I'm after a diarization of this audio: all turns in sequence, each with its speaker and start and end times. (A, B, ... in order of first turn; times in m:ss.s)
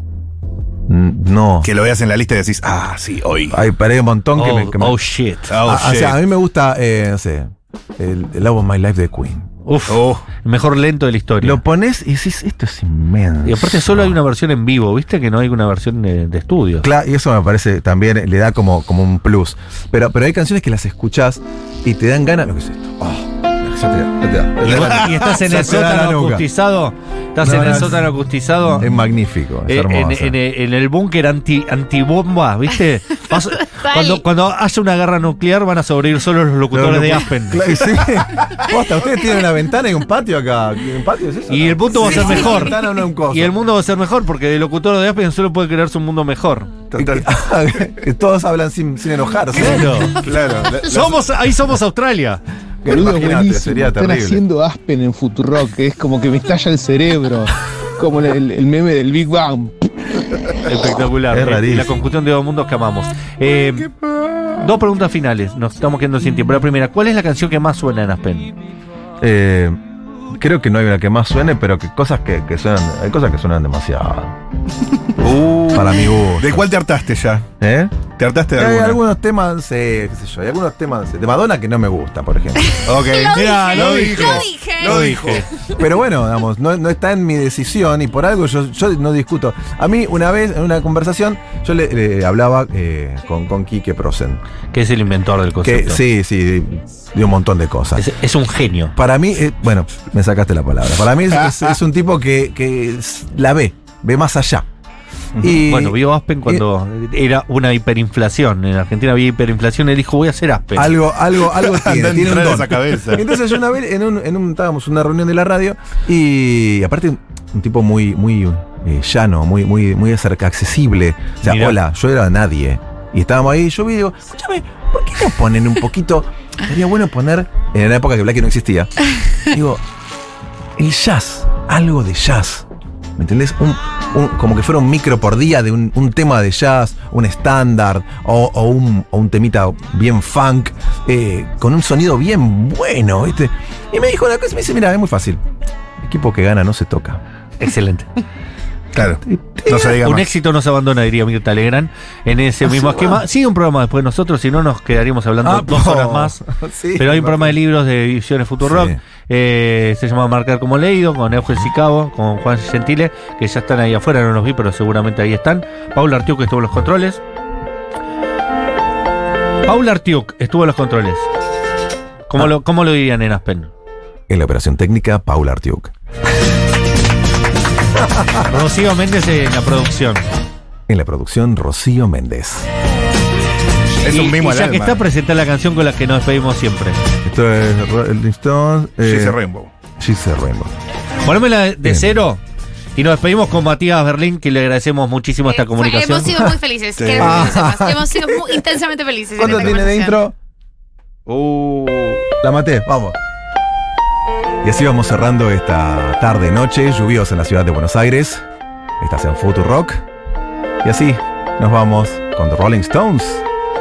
0:00.9-0:01.7 A
0:01.6-0:03.6 B
0:03.5-0:05.0 A
0:04.4-0:05.5 C
0:05.5-0:06.2 B
0:05.6-0:09.5 A
0:09.6-0:11.6 C
0:09.9-0:10.2 B
0:11.4-0:14.2 A
0:13.4-0:16.9 C
0:16.8-0:26.5 A
0:24.6-0:28.9 C
0:24.8-0:25.1 B
0:27.4-0:28.1 A
0:28.7-0:30.4 A
0:29.7-0:37.7 C
0:33.7-0:34.2 D
0:36.7-0:43.6 A
0:41.5-0:46.7 C
0:46.9-0:47.3 B
0:46.9-0:50.2 A
0:49.5-0:50.2 C
0:50.2-0:51.2 B
0:50.8-0:52.4 C
0:52.8-0:54.4 A
0:52.8-0:59.8 E
1:00.6-1:03.9 C
1:01.3-1:02.0 A
1:04.5-1:08.5 C
1:09.2-1:09.8 A
1:10.3-1:14.4 A
1:15.2-1:17.5 B
1:15.7-1:16.7 A
1:17.6-1:17.9 A
1:18.1-1:19.0 B
1:18.5-1:22.8 A
1:22.6-1:25.3 D
1:22.8-1:25.4 B
1:23.3-1:25.5 C
1:25.7-1:34.4 A
1:34.7-1:36.0 C
1:35.6-1:38.1 A
1:38.0-1:38.9 C
1:38.9-1:44.7 A
1:45.4-1:46.6 A
1:45.6-1:51.0 C
1:50.7-2:08.9 A
1:51.5-1:53.4 B
2:01.4-2:01.8 C
2:09.4-2:09.8 A
2:10.8-2:25.4 A
2:26.0-2:27.2 A
2:27.6-2:28.1 C
2:28.9-2:30.3 B
2:29.6-2:36.4 C
2:32.6-2:33.2 A
2:35.4-2:37.6 A
2:37.0-2:47.2 C
2:38.6-2:39.0 A
2:49.6-2:51.2 C
2:52.3-2:53.7 C
2:54.3-2:55.9 A
2:58.4-3:00.3 C
3:00.9-3:02.7 A
3:04.0-3:05.0 B
3:04.0-3:07.0 C
3:07.2-3:09.4 A
3:09.0-3:09.7 B
3:10.0-3:10.7 A
3:11.2-3:12.4 C
3:11.8-3:12.1 A
3:13.0-3:16.4 C
3:15.5-3:20.2 D
3:17.0-3:17.7 B
3:17.1-3:18.6 A
3:19.4-3:20.4 A
3:21.3-3:22.2 B
3:22.2-3:23.2 A
3:24.6-3:28.4 A
3:29.0-3:30.0 A
3:30.8-3:33.4 A